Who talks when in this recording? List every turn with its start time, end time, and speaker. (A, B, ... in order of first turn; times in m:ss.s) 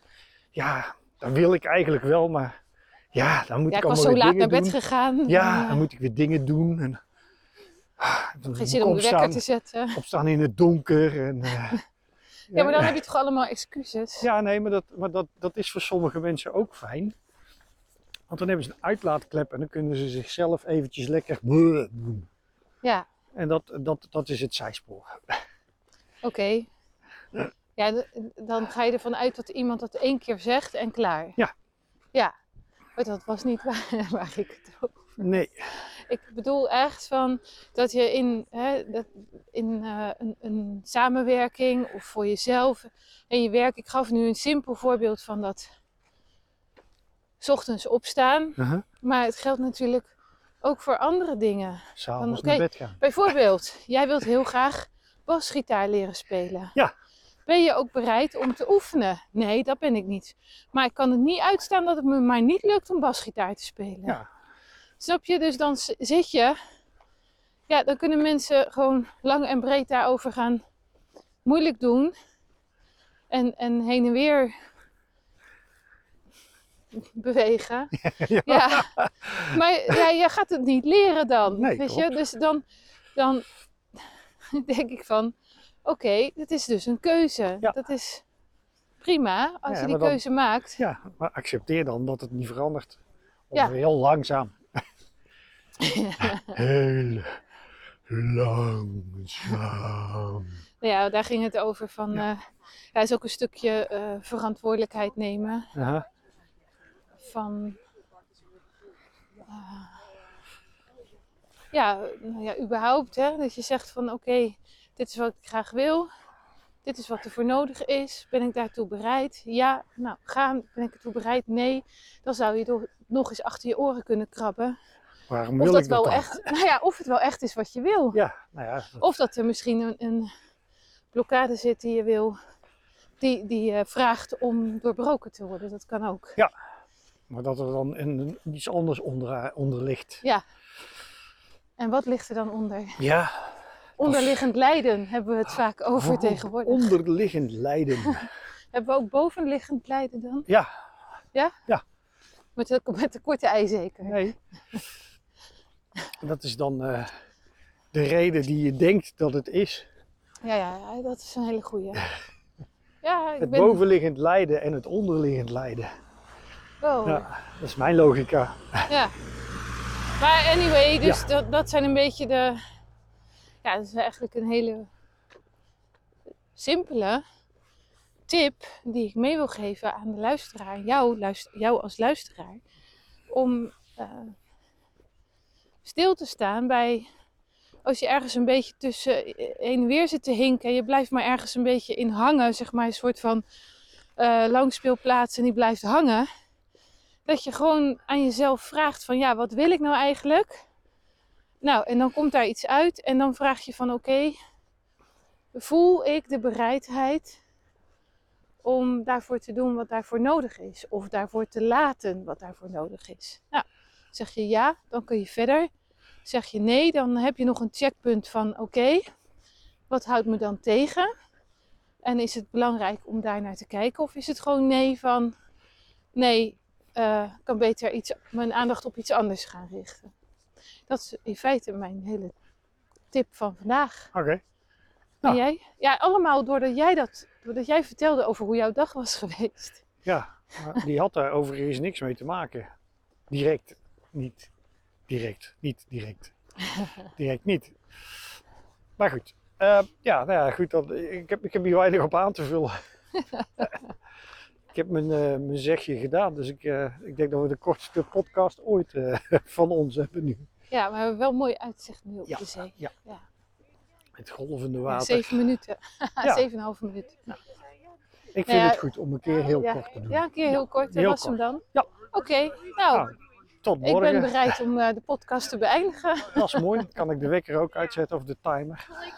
0:00.5-0:02.5 A
0:03.1-0:07.0 A
0:03.7-0:05.8 B
0:08.0-0:09.4 A
0:08.6-0:10.0 B
0:09.9-0:11.8 A
0:12.5-0:13.0 A
0:12.5-0:14.3 B
0:14.2-0:17.1 A
0:18.3-0:22.3 A
0:23.3-0:25.3 A
0:26.2-0:26.7 B
0:27.8-0:31.4 B
0:33.0-0:45.7 B
0:35.2-0:35.6 A
0:47.4-0:50.1 B
0:48.6-0:48.8 A
0:50.6-0:56.8 B
0:52.0-0:53.0 A
0:57.4-1:04.2 B
1:05.0-1:06.6 B
1:07.7-1:10.6 B
1:11.4-1:12.1 B
1:13.3-1:14.5 B
1:16.9-1:22.6 B
1:18.0-1:20.0 A
1:21.5-1:22.2 A
1:23.1-1:23.4 B
1:24.0-1:25.3 B
1:25.8-1:28.2 B
1:29.0-1:30.8 B
1:29.7-1:30.2 A
1:30.8-1:33.0 A
1:33.5-1:34.6 A
1:35.8-1:36.5 B
1:36.4-1:37.4 A
1:38.1-1:40.6 A
1:40.8-1:42.4 B
1:42.9-1:45.7 B
1:45.7-1:46.0 A
1:47.2-1:47.8 B
1:49.4-1:50.0 B
1:51.7-1:56.1 B
1:56.8-2:04.8 B
2:05.3-2:06.4 A
2:05.6-2:08.2 B
2:08.1-2:09.0 A
2:09.0-2:10.3 B
2:11.1-2:12.4 B
2:13.2-2:16.4 B
2:17.3-2:20.2 A
2:21.8-2:23.0 B
2:23.0-2:24.4 A
2:24.0-2:26.9 B
2:26.0-2:28.3 A
2:28.0-2:30.5 B
2:32.6-2:34.2 B
2:34.0-2:34.4 A
2:36.2-2:37.1 A
2:37.9-2:39.9 A
2:40.4-2:42.1 B
2:43.0-2:43.8 B
2:43.4-2:45.9 A
2:46.8-2:47.2 B
2:47.0-2:48.9 A
2:48.9-2:49.1 B
2:50.2-2:52.6 B
2:53.6-2:54.9 B
2:56.5-2:57.2 B
2:58.3-3:02.6 B
3:03.3-3:04.3 B
3:05.8-3:07.0 B
3:07.8-3:13.4 B
3:14.2-3:16.2 B
3:17.2-3:20.5 B
3:21.6-3:24.4 B
3:25.5-3:27.4 B
3:28.6-3:35.7 B
3:36.2-3:39.0 B
3:39.9-3:41.1 B
3:42.0-3:45.3 B
3:46.1-3:50.1 B
3:50.9-3:52.3 B
3:53.1-3:54.1 B
3:54.1-3:54.4 A
3:55.2-3:59.8 B
4:00.0-4:02.7 A
4:03.3-4:04.5 A
4:05.1-4:06.3 A
4:07.1-4:07.8 A
4:09.0-4:12.7 A
4:14.7-4:20.5 A
4:20.7-4:23.2 B
4:22.3-4:22.9 A
4:24.1-4:25.4 A
4:24.9-4:27.3 B
4:28.3-4:31.9 A
4:28.5-4:28.9 B
4:29.5-4:33.1 B
4:33.6-4:34.6 A
4:33.8-4:36.8 B
4:36.3-4:39.0 A